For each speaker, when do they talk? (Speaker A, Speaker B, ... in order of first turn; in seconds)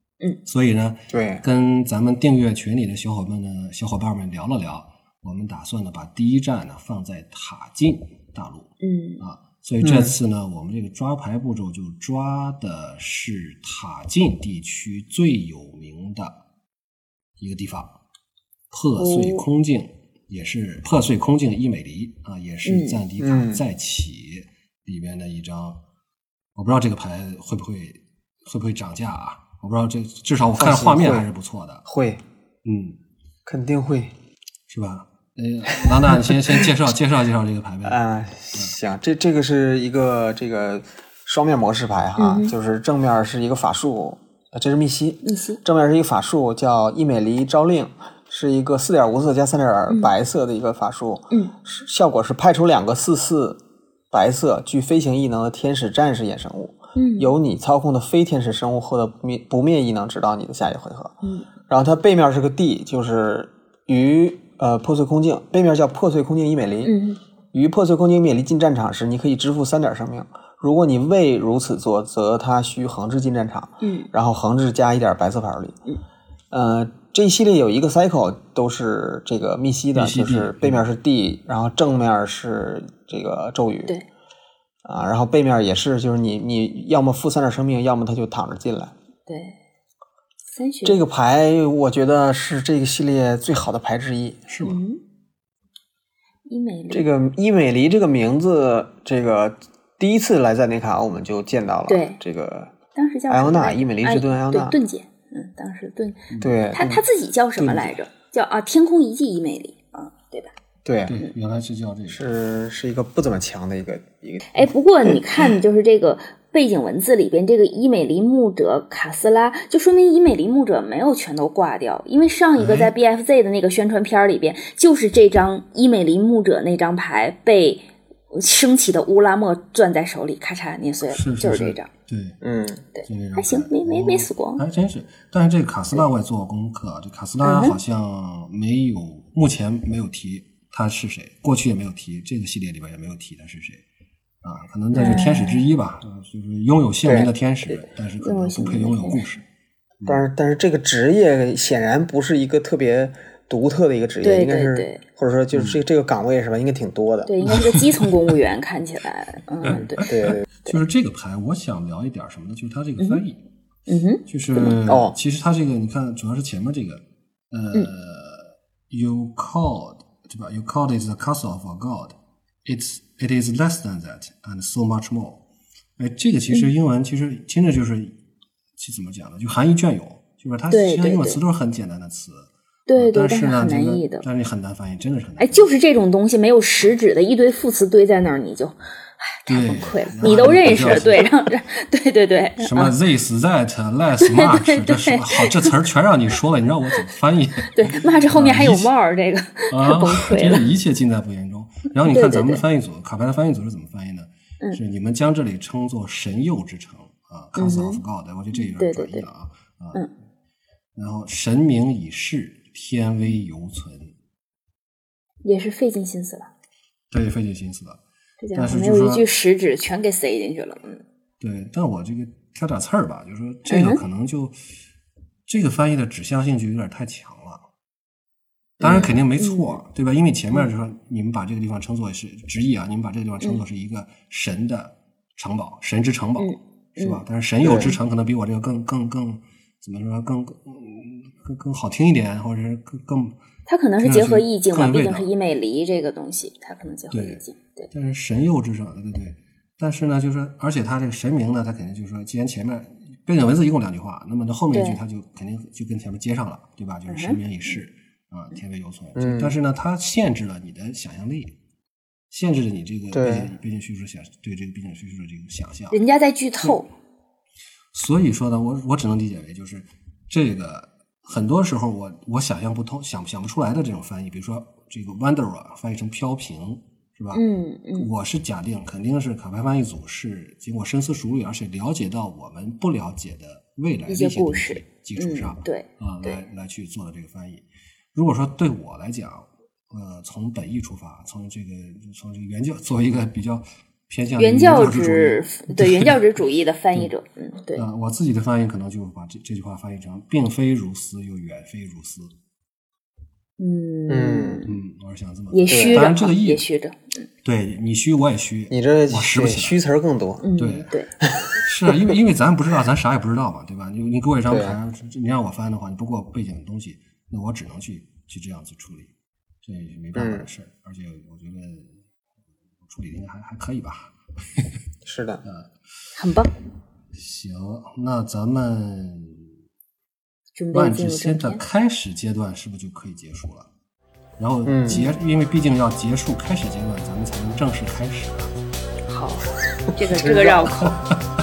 Speaker A: 0.4-16.4, 17.4-18.0, 18.7-25.8, 26.6-31.8, 32.6-33.0, 34.7-38.0, 79.9-80.9, 94.5-94.8, 111.0-112.2, 122.6-122.9, 131.0-132.4, 133.0-143.8, 144.4-149.4, 155.5-155.8, 157.4-158.2, 159.6-163.4, 164.3-175.4, 176.0-178.1, 178.8-185.7, 189.5-191.3, 192.6-198.9, 199.7-210.1, 210.9-214.1, 217.1-218.0, 218.5-219.2, 221.4-224.6, 225.5-227.6, 228.8-243.4, 244.0-245.3, 247.1-261.6, 262.3-266.0, 267.9-277.4, 277.9-296.1, 297.7-302.3, 304.6-306.6, 307.4-309.8, 310.6-310.9, 311.6-319.1, 319.6-322.0, 322.8-324.6, 325.4-325.7, 327.1-329.5, 330.7-333.7, 334.4-338.5, 340.8-341.2
Speaker B: 1.1-1.4, 9.8-10.1, 23.2-23.6, 30.5-31.3, 31.8-32.2, 33.5-34.1, 37.8-53.6, 54.1-61.1, 61.7-67.0, 67.5-75.8, 76.5-84.0, 84.8-88.9, 90.8-94.4, 96.9-102.8, 103.3-104.8, 106.4-108.0, 110.8-111.2, 112.1-115.2, 132.4-132.8, 147.0-147.3, 150.1-157.3, 160.1-160.4, 164.8-165.2, 228.8-229.1, 237.6-237.9, 259.1-259.6, 263.1-263.5, 304.1-304.6, 305.7-306.1, 308.7-310.5, 314.5-314.8, 320.1-320.5, 325.0-325.4, 334.6-335.1, 339.9-340.8
Speaker C: 8.8-9.2, 19.0-19.5, 22.6-23.0, 42.2-42.5, 45.2-45.6, 56.9-57.3, 61.2-61.5, 66.8-67.2, 73.8-74.1, 89.3-89.6, 90.5-91.0, 94.6-95.0, 96.5-97.0, 101.9-102.2, 102.9-110.5, 114.5-131.9, 132.9-134.6, 137.4-137.8, 144.9-145.6, 148.2-149.2, 154.2-155.0, 157.2-160.8, 163.9-164.8, 180.7-181.4, 182.9-184.2, 185.4-192.9, 194.2-195.8, 197.7-200.7, 202.1-202.6, 207.5-208.0, 208.5-209.3, 215.4-216.5, 218.4-221.0, 223.7-224.0, 228.8-229.8, 236.4-237.2, 243.7-247.9, 254.7-255.0, 257.1-257.8, 265.9-266.9, 277.3-278.1, 284.1-286.4, 294.4-297.8, 303.6-304.7, 305.5-307.3, 310.4-311.1, 326.1-326.5, 330.6-331.6, 339.1-340.9